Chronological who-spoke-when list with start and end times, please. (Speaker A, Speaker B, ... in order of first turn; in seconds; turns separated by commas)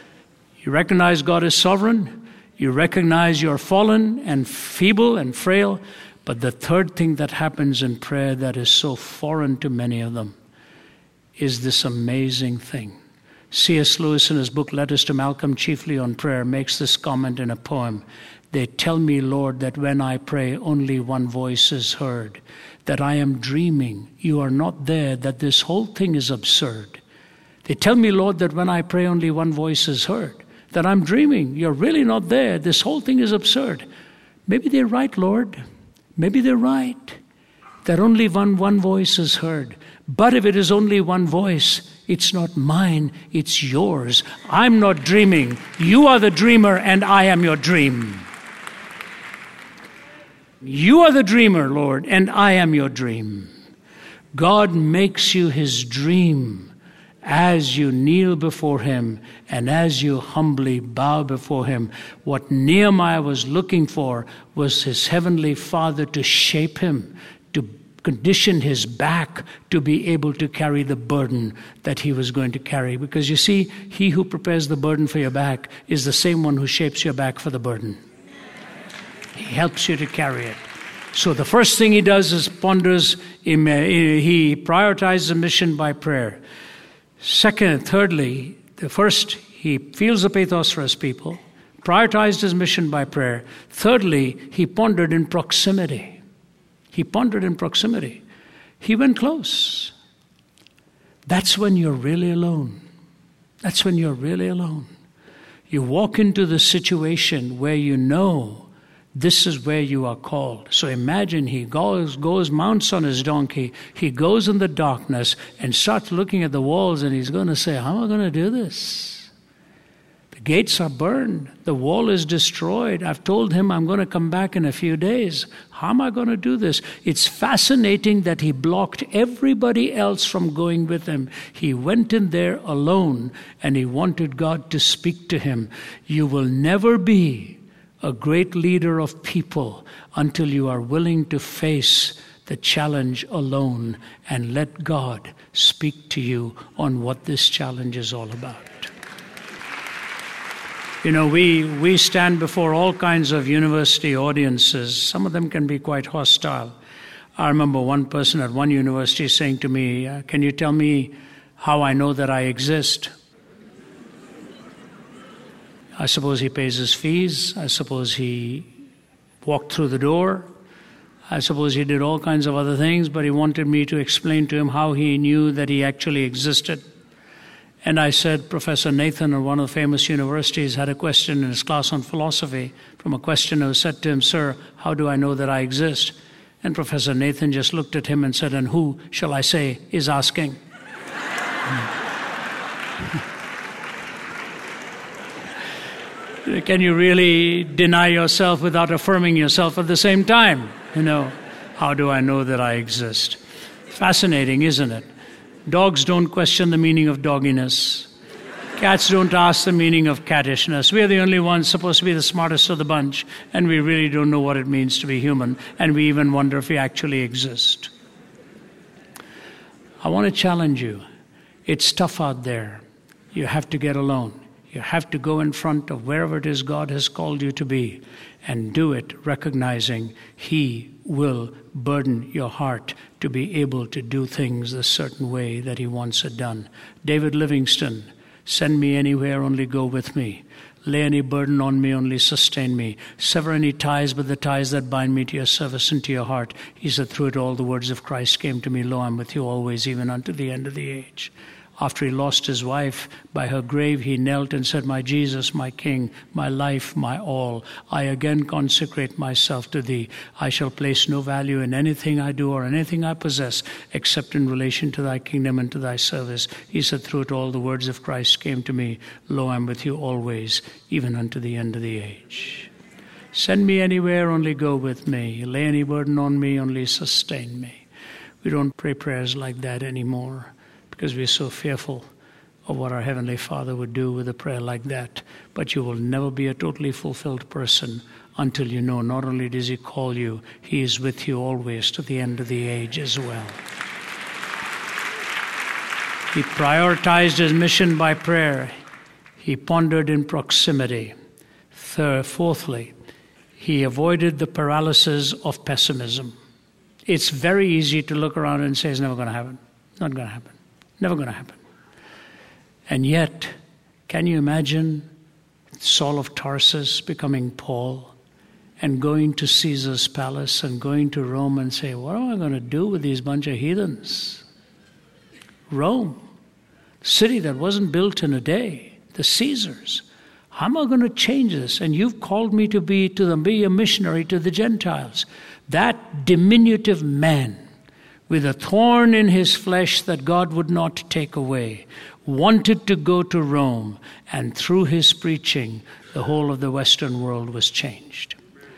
Speaker A: 0.6-10.3, Speaker A: 11.4-12.9, Speaker A: 13.5-27.0, Speaker A: 27.6-33.9, Speaker A: 34.5-35.6, Speaker A: 36.1-37.2, Speaker A: 37.8-48.2, Speaker A: 50.6-53.5, Speaker A: 54.3-56.7, Speaker A: 57.2-78.0, Speaker A: 79.3-80.6, Speaker A: 81.1-86.4, Speaker A: 87.2-96.2, Speaker A: 96.9-98.2, Speaker A: 98.8-99.9, Speaker A: 101.2-102.8, Speaker A: 103.6-104.9, Speaker A: 105.7-119.3, Speaker A: 120.3-148.9, Speaker A: 151.0-156.8, Speaker A: 157.4-163.1, Speaker A: 166.0-168.7, Speaker A: 169.4-170.5, Speaker A: 171.3-176.8, Speaker A: 177.8-190.6, Speaker A: 196.4-203.4, Speaker A: 203.9-205.1, Speaker A: 205.7-208.1, Speaker A: 208.8-217.9, Speaker A: 220.0-221.0, Speaker A: 221.7-222.8, Speaker A: 223.3-272.7, Speaker A: 273.3-277.8, Speaker A: 278.4-282.1, Speaker A: 282.6-293.6, Speaker A: 296.3-298.7, Speaker A: 299.4-301.1, Speaker A: 301.7-302.9, Speaker A: 303.6-306.3, Speaker A: 307.1-311.6, Speaker A: 312.9-313.5, Speaker A: 314.1-315.1, Speaker A: 315.8-318.1, Speaker A: 318.8-324.4, Speaker A: 325.7-326.2, Speaker A: 327.0-337.6, Speaker A: 338.3-348.4